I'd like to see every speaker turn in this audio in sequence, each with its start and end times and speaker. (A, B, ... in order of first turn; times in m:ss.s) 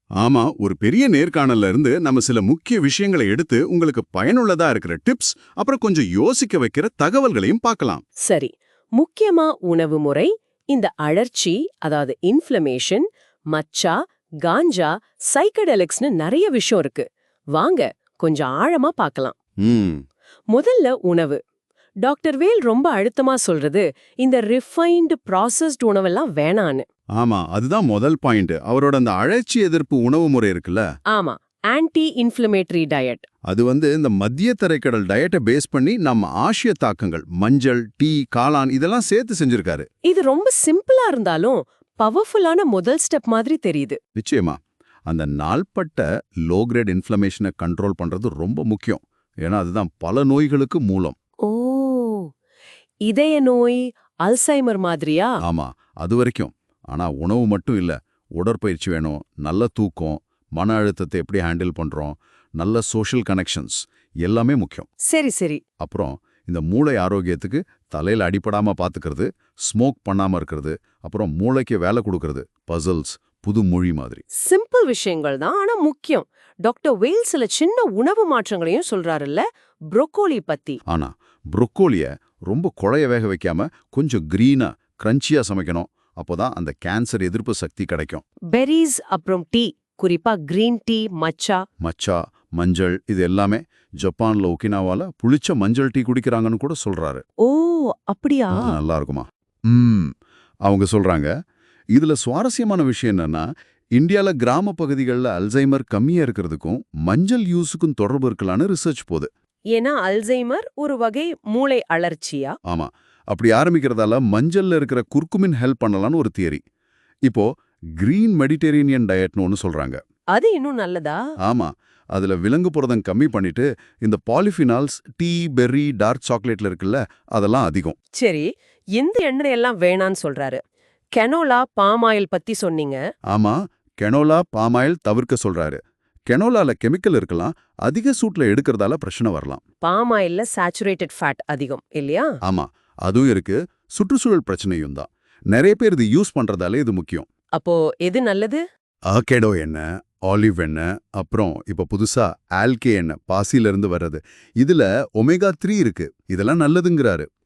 0:00.2-0:08.0 A
0:08.2-0:19.4 B
0:19.6-0:20.0 A
0:20.5-0:21.4 B
0:22.0-0:26.9 B
0:27.2-0:30.8 A
0:31.1-0:33.3 B
0:33.5-0:39.9 A
0:40.1-0:44.0 B
0:44.2-0:51.1 A
0:51.4-0:52.3 B
0:53.1-0:55.4 B
0:55.4-1:04.9 A
1:05.0-1:05.6 B
1:05.8-1:14.2 A
1:14.4-1:20.8 B
1:20.9-1:28.2 A
1:28.5-1:31.6 B
1:31.8-1:37.2 A
1:37.4-1:38.8 B
1:38.5-1:40.1 A
1:40.6-1:41.3 A
1:41.9-1:49.3 A
1:49.7-1:52.6 B
1:52.7-1:56.6 A
1:57.2-2:00.0 A
2:00.3-2:01.2 B
2:01.4-2:08.0 A
2:08.2-2:10.6 B
2:11.2-2:13.0 B
2:13.3-2:19.6 A
2:19.8-2:22.3 B
2:22.4-2:27.3 A
2:27.6-2:28.6 B
2:29.1-2:37.3 A